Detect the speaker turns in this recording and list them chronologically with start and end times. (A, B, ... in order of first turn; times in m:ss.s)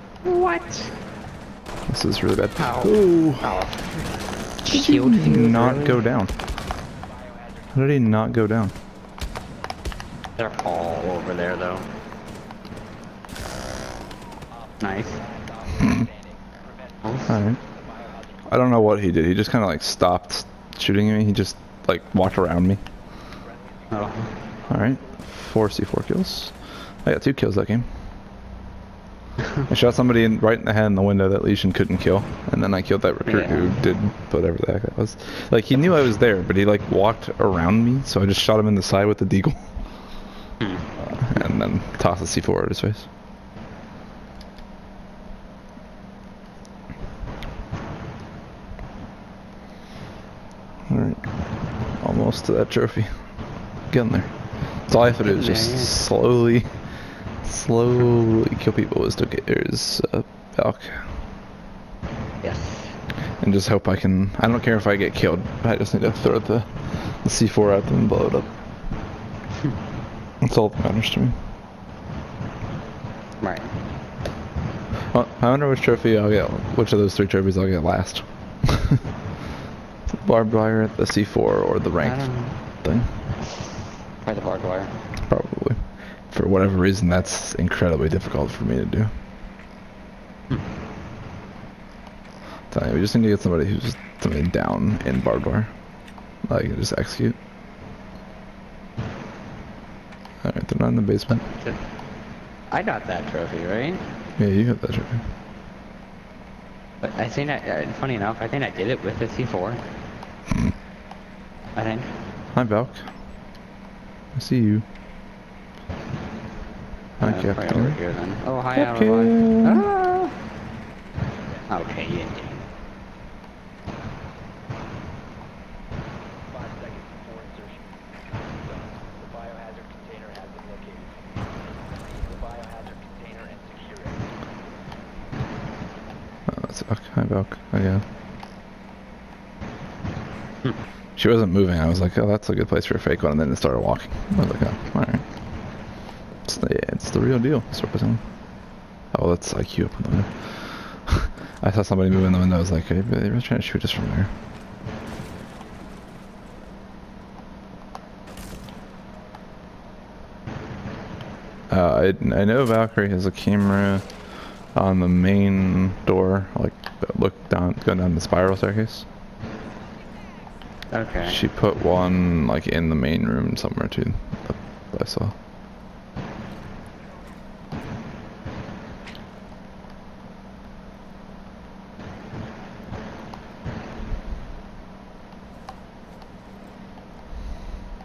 0:00.2-0:00.9 A
0:01.9-0:03.6 B
0:02.6-0:06.0 A
0:04.7-0:06.4 B
0:07.0-0:08.3 C
0:07.7-0:08.7 B
0:10.4-0:11.9 A
0:14.5-0:19.0 C
0:14.8-0:15.2 A
0:17.3-0:17.6 B
0:18.5-0:22.8 B
0:23.4-0:25.4 C
0:23.9-0:24.3 A
0:24.7-0:27.9 B
0:29.7-0:39.7 B
0:33.3-0:33.8 A
0:40.6-0:40.9 A
0:41.0-0:43.1 B
0:50.9-0:51.2 B
0:52.0-0:53.2 B
0:53.9-0:56.8 B
0:55.2-0:56.0 A
0:57.4-1:01.1 B
1:02.4-1:03.0 A
1:03.4-1:08.5 B
1:10.4-1:11.4 B
1:13.4-1:13.7 A
1:15.1-1:19.0 B
1:20.1-1:23.2 B
1:22.0-1:22.6 A
1:24.2-1:24.9 A
1:25.2-1:29.1 B
1:32.7-1:35.7 B
1:36.4-1:37.4 B
1:40.4-1:41.5 B
1:41.4-1:41.8 A
1:42.7-1:44.0 A
1:44.4-1:45.3 B
1:47.0-1:49.8 A
1:51.8-1:52.1 A
1:52.5-1:53.1 B
1:54.3-1:54.8 B
1:57.2-1:58.0 B
1:57.2-2:00.4 A
1:58.8-1:59.9 B
2:01.3-2:02.8 C
2:01.7-2:02.7 A
2:06.5-2:11.2 C
2:11.8-2:14.2 C
2:16.5-2:18.0 B
2:21.2-2:25.2 B
2:26.5-2:28.2 B
2:29.1-2:34.3 B
2:41.7-2:49.1 B
2:50.9-2:51.4 A
2:51.2-2:55.4 B